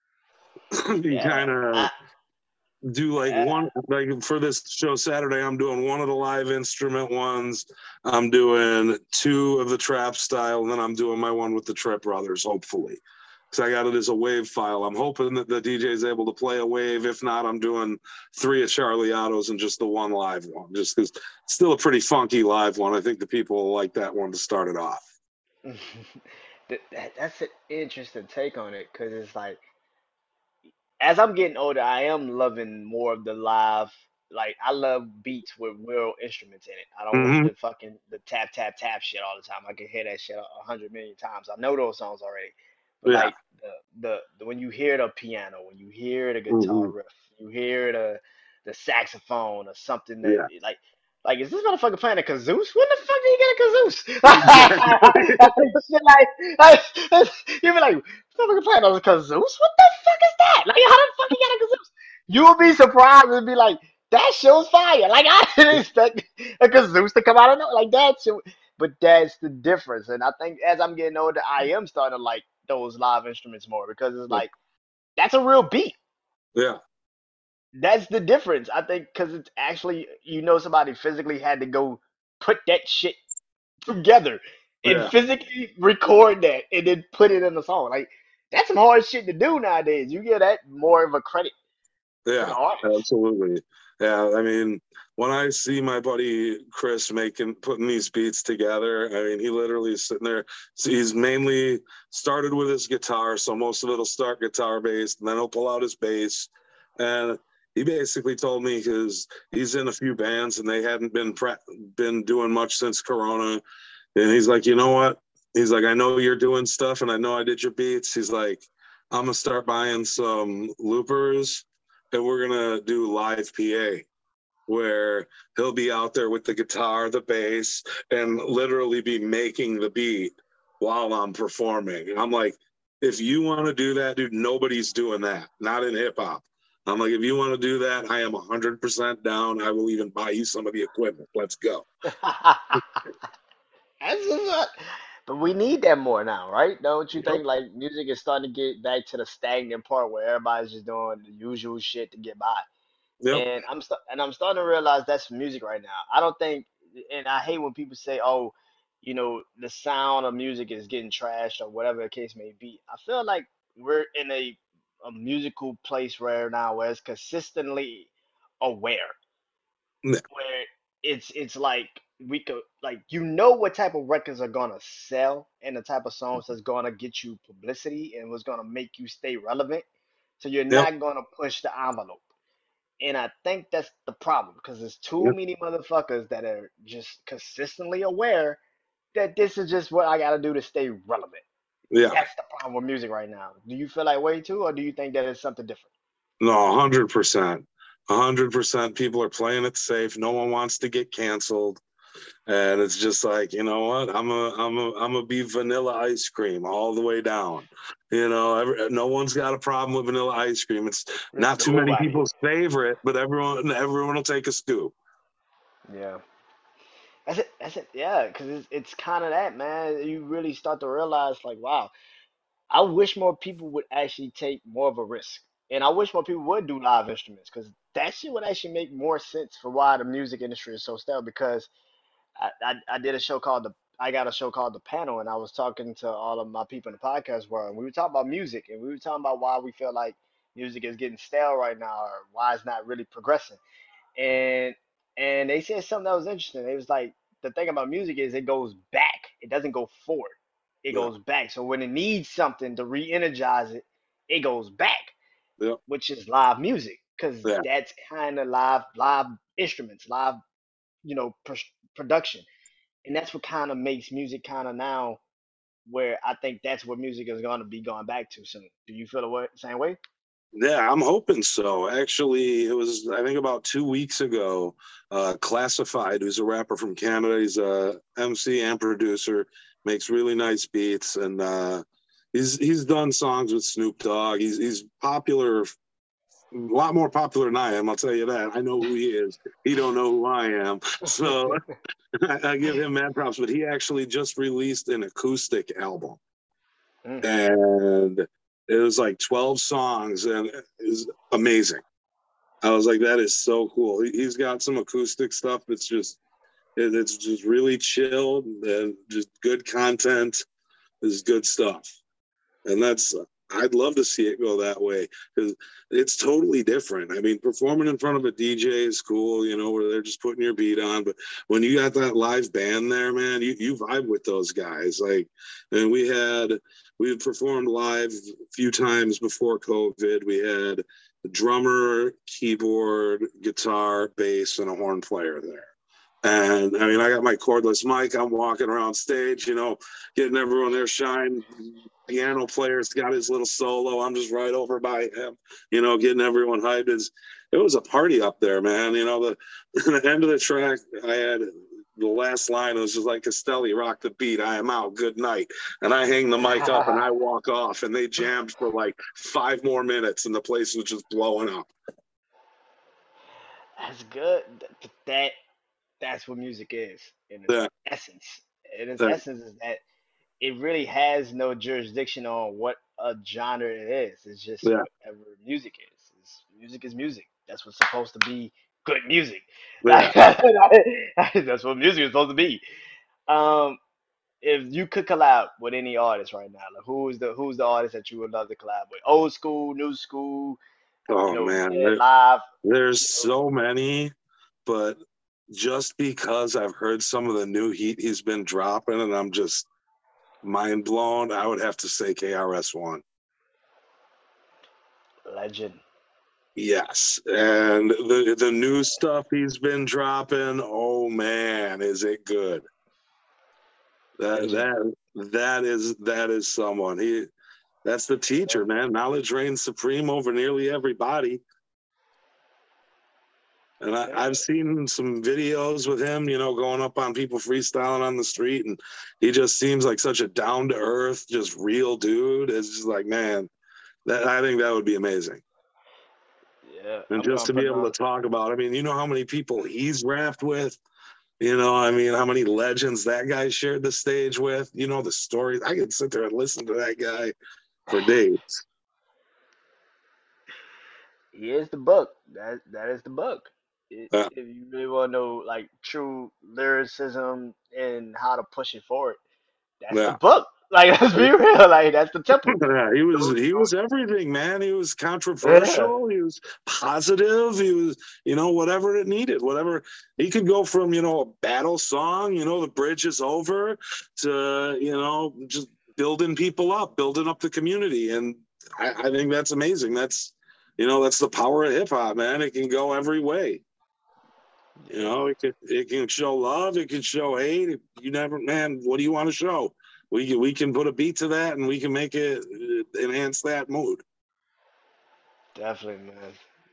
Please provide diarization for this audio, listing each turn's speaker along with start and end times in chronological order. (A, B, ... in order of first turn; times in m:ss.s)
0:01.0-0:01.9 A
0:01.1-0:01.9 B
0:02.9-0:25.0 A
0:03.3-0:03.7 B
0:25.6-0:29.6 B
0:31.0-1:14.5 B
0:37.1-0:37.5 A
0:43.1-0:43.3 A
0:46.5-0:46.9 A
0:54.3-0:55.5 A
1:15.2-1:16.0 B
1:17.8-1:23.2 B
1:23.9-1:31.5 B
1:24.9-1:25.1 A
1:32.3-1:53.6 A
1:32.4-1:33.0 B
1:54.2-2:04.1 A
2:04.7-2:21.9 A
2:22.1-2:22.8 B
2:24.0-2:24.7 B
2:25.3-2:32.6 B
2:27.2-2:27.4 A
2:33.3-2:49.2 B
2:50.3-2:59.8 B
3:00.4-3:02.2 B
3:03.0-3:08.6 B
3:09.2-3:11.4 B
3:11.9-3:12.2 A
3:12.1-3:15.9 B
3:16.4-3:21.8 A
3:22.5-3:34.9 A
3:31.3-3:32.2 B
3:35.9-3:36.2 B
3:37.3-3:41.9 B
3:42.7-3:51.7 B
3:52.4-4:03.6 B
4:04.2-4:15.1 B
4:15.9-4:20.4 B
4:21.0-4:22.5 B
4:23.0-4:25.2 B
4:25.9-4:30.0 B
4:30.6-4:41.8 A
4:42.3-4:45.7 A
4:46.5-4:51.6 A
4:51.2-4:51.7 B
4:52.2-4:56.2 A
4:57.2-5:01.8 A
5:02.6-5:06.2 A
5:06.8-5:10.4 A
5:11.0-5:12.0 A
5:12.6-5:35.7 A
5:36.2-6:01.7 A
5:56.4-5:57.0 B
6:03.8-6:05.3 B
6:06.0-6:09.8 B
6:10.4-6:22.6 B
6:19.8-6:20.1 A
6:23.3-6:23.8 B
6:24.4-6:30.6 B
6:31.1-6:32.0 A
6:31.3-6:32.5 B
6:32.6-6:34.1 A
6:33.0-6:33.3 B
6:34.7-6:35.0 A
6:35.5-6:39.7 A
6:40.4-6:43.0 A
6:45.3-6:45.8 B
6:46.6-6:52.6 A
6:54.2-6:57.3 A
6:54.3-6:54.7 B
6:57.8-7:01.4 A
6:58.3-6:58.6 B
7:03.8-7:13.5 A
7:04.0-7:04.4 B
7:14.1-7:15.4 A
7:16.6-7:17.9 B
7:17.1-7:20.8 A
7:21.4-7:27.3 A
7:27.9-7:28.6 A
7:31.3-7:39.2 B
7:39.8-7:42.6 B
7:39.9-7:40.2 A
7:42.5-8:03.6 A
7:43.1-7:43.7 B
7:45.4-7:45.9 B
8:04.8-8:05.2 B
8:04.9-8:14.0 A
8:15.6-8:16.4 B